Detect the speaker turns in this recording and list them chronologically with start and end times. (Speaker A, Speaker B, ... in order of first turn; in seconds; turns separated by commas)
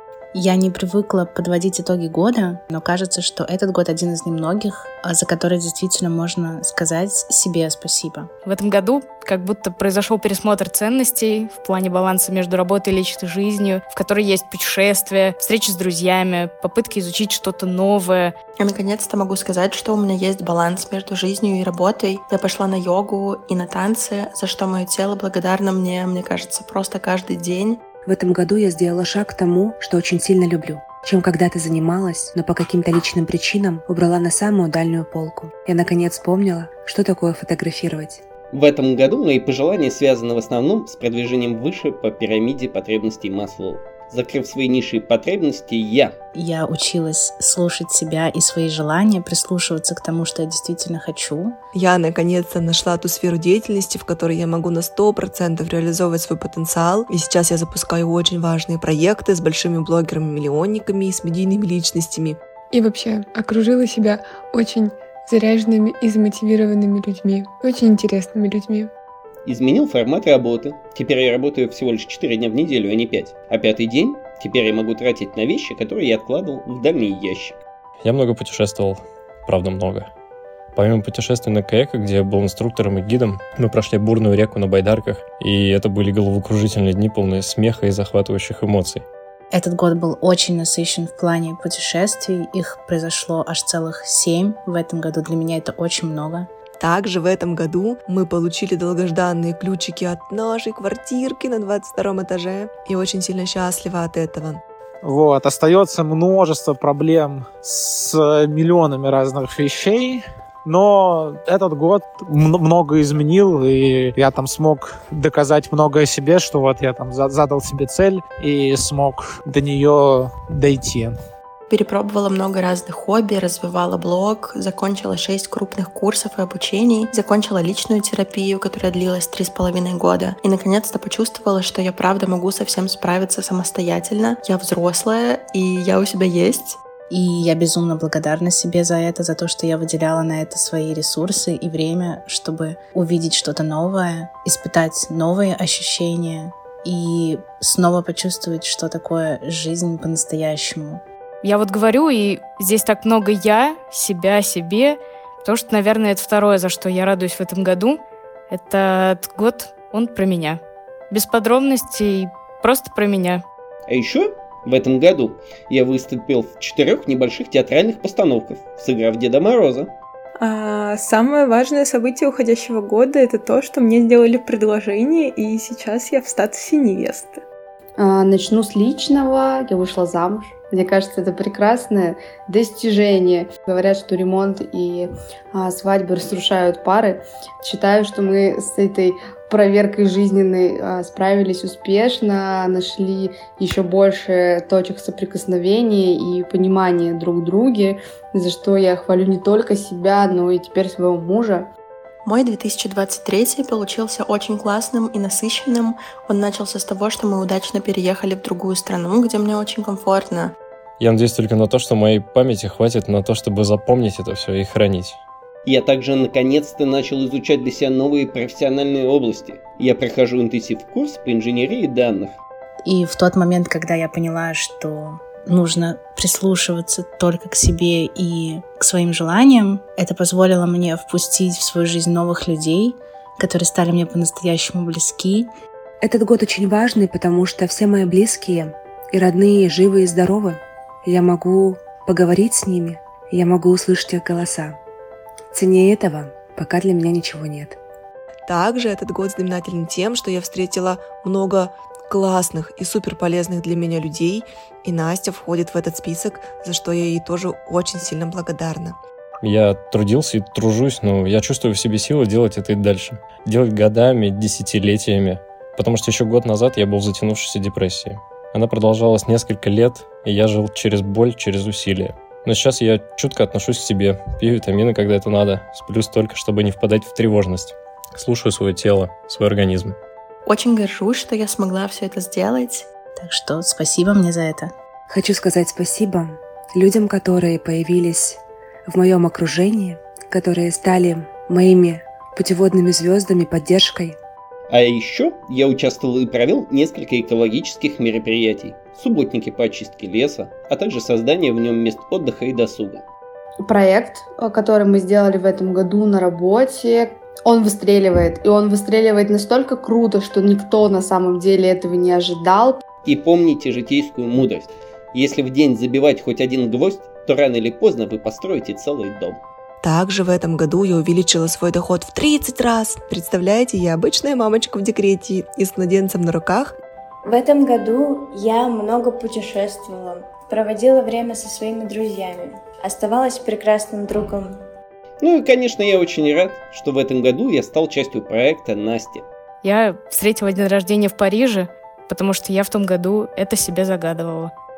Speaker A: 0.3-8.3, Speaker B: 8.4-18.4, Speaker C: 18.6-27.9, Speaker D: 28.0-38.2, Speaker E: 38.5-46.1, Speaker A: 46.4-51.6, Speaker F: 51.7-62.4, Speaker G: 62.7-68.9, Speaker E: 69.5-77.6, Speaker H: 78.0-80.1, Speaker H: 80.8-89.0, Speaker A: 89.5-96.5, Speaker F: 96.8-104.6, Speaker I: 105.0-121.2, Speaker C: 121.7-136.8, Speaker A: 137.1-151.0, Speaker B: 151.4-163.4, Speaker E: 163.9-169.9, Speaker J: 170.4-177.4, Speaker K: 178.0-201.7, Speaker C: 202.2-210.5, Speaker H: 211.0-215.2, Speaker E: 215.7-222.4, Speaker A: 222.8-235.5, Speaker D: 236.0-244.8, Speaker D: 245.5-247.8, Speaker F: 248.5-259.0, Speaker H: 259.4-280.0, Speaker C: 280.5-282.9, Speaker A: 283.2-284.7, Speaker D: 285.1-294.2, Speaker E: 294.7-303.1, Speaker K: 303.6-312.8, Speaker E: 313.1-319.4, Speaker F: 319.8-326.7, Speaker L: 327.3-334.6, Speaker E: 335.2-339.3, Speaker B: 339.6-344.5